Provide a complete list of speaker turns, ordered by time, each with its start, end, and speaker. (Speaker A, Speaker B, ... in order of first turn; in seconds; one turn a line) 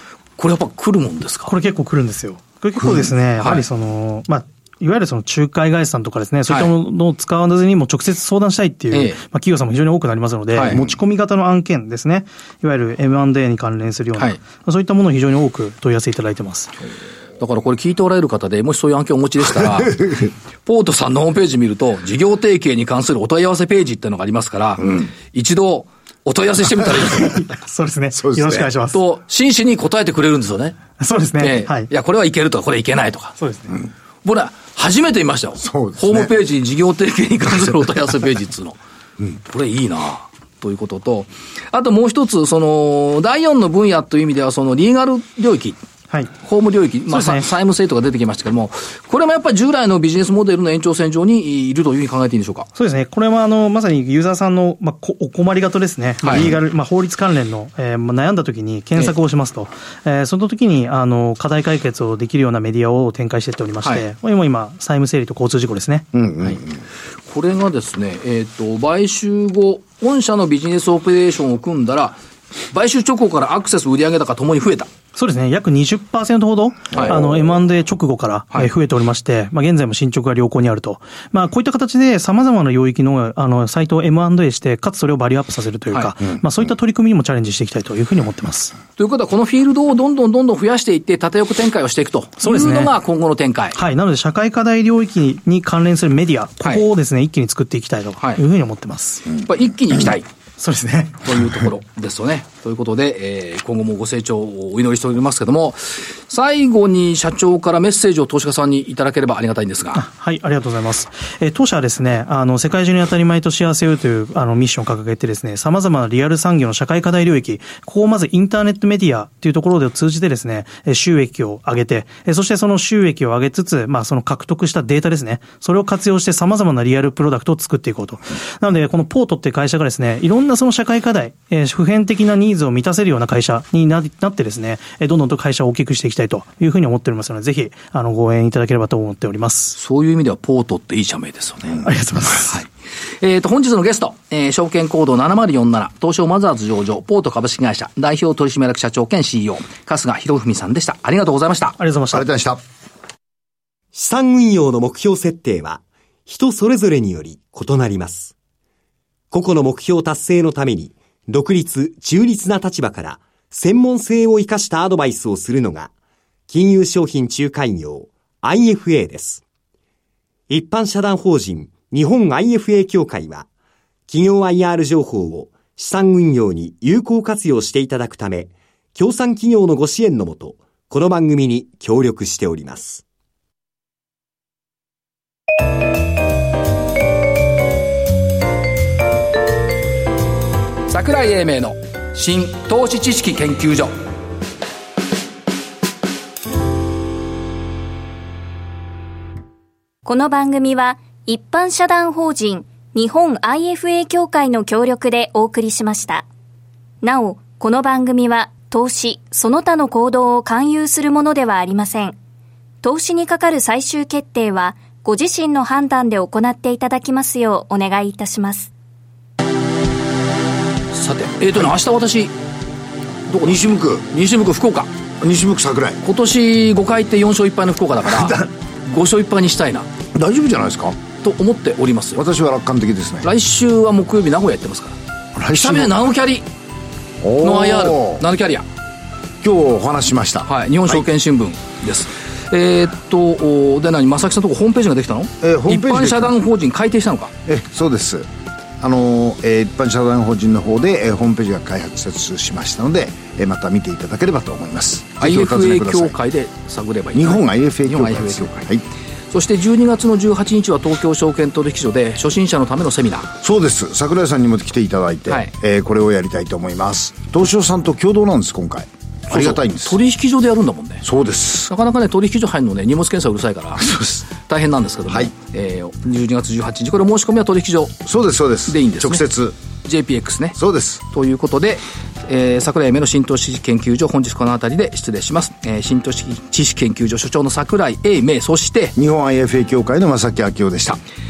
Speaker A: 0.4-1.5
Speaker B: 1.5-16.7
Speaker A: 8.9-9.2
Speaker A: 10.5-10.8
Speaker A: 17.4-27.4
Speaker B: 27.2-29.0
Speaker C: 28.2-28.7
Speaker A: 28.9-30.8
Speaker B: 31.0-31.9
Speaker A: 31.4-33.4
Speaker B: 33.4-33.8
Speaker A: 34.2-38.8
Speaker C: 35.6-36.3
Speaker A: 39.4-45.8
Speaker A: 46.4-52.7
Speaker B: 47.1-47.5
Speaker B: 52.8-66.1
Speaker A: 56.2-56.5
Speaker C: 66.1-66.6
Speaker A: 67.3-74.9
Speaker B: 75.1-88.7
Speaker A: 76.9-77.2
Speaker A: 89.0-93.8
Speaker B: 92.4-92.9
Speaker B: 93.8-99.3
Speaker A: 99.4-100.3
Speaker B: 100.6-101.5
Speaker A: 101.3-110.0
Speaker B: 109.9-139.8
Speaker A: 139.8-141.8
Speaker B: 141.8-142.6
Speaker A: 143.2-151.8
Speaker B: 151.8-152.2
Speaker C: 152.1-152.6
Speaker D: 153.9-158.3
Speaker D: 159.3-165.9
Speaker D: 166.5-169.4
Speaker D: 170.5-173.5
Speaker D: 174.1-183.0
Speaker A: 190.9-193.9
Speaker E: 200.1-206.2
Speaker E: 207.0-212.2
Speaker E: 212.8-218.7
Speaker A: 220.9-222.3
Speaker A: 223.3-224.9
Speaker C: 223.4-224.1
Speaker C: 225.2-226.0
Speaker A: 226.0-229.9
Speaker C: 230.1-231.0
Speaker A: 231.2-232.2
Speaker C: 232.2-233.3
Speaker A: 233.2-234.9
Speaker C: 235.3-236.0
Speaker A: 235.5-236.4
Speaker C: 237.2-238.2
Speaker A: 237.4-238.6
Speaker C: 239.4-241.1
Speaker A: 240.5-247.3
Speaker C: 245.4-246.4
Speaker C: 247.4-248.3
Speaker C: 248.8-256.1
Speaker A: 255.2-258.7
Speaker C: 257.1-258.9
Speaker A: 259.3-263.3
Speaker C: 263.4-270.0
Speaker A: 269.3-271.1
Speaker C: 271.0-271.7
Speaker A: 271.7-278.0
Speaker C: 273.8-274.2
Speaker C: 278.1-279.6
Speaker A: 278.7-279.2
Speaker A: 279.9-280.6
Speaker C: 280.6-281.0
Speaker A: 281.1-289.0
Speaker C: 288.9-291.0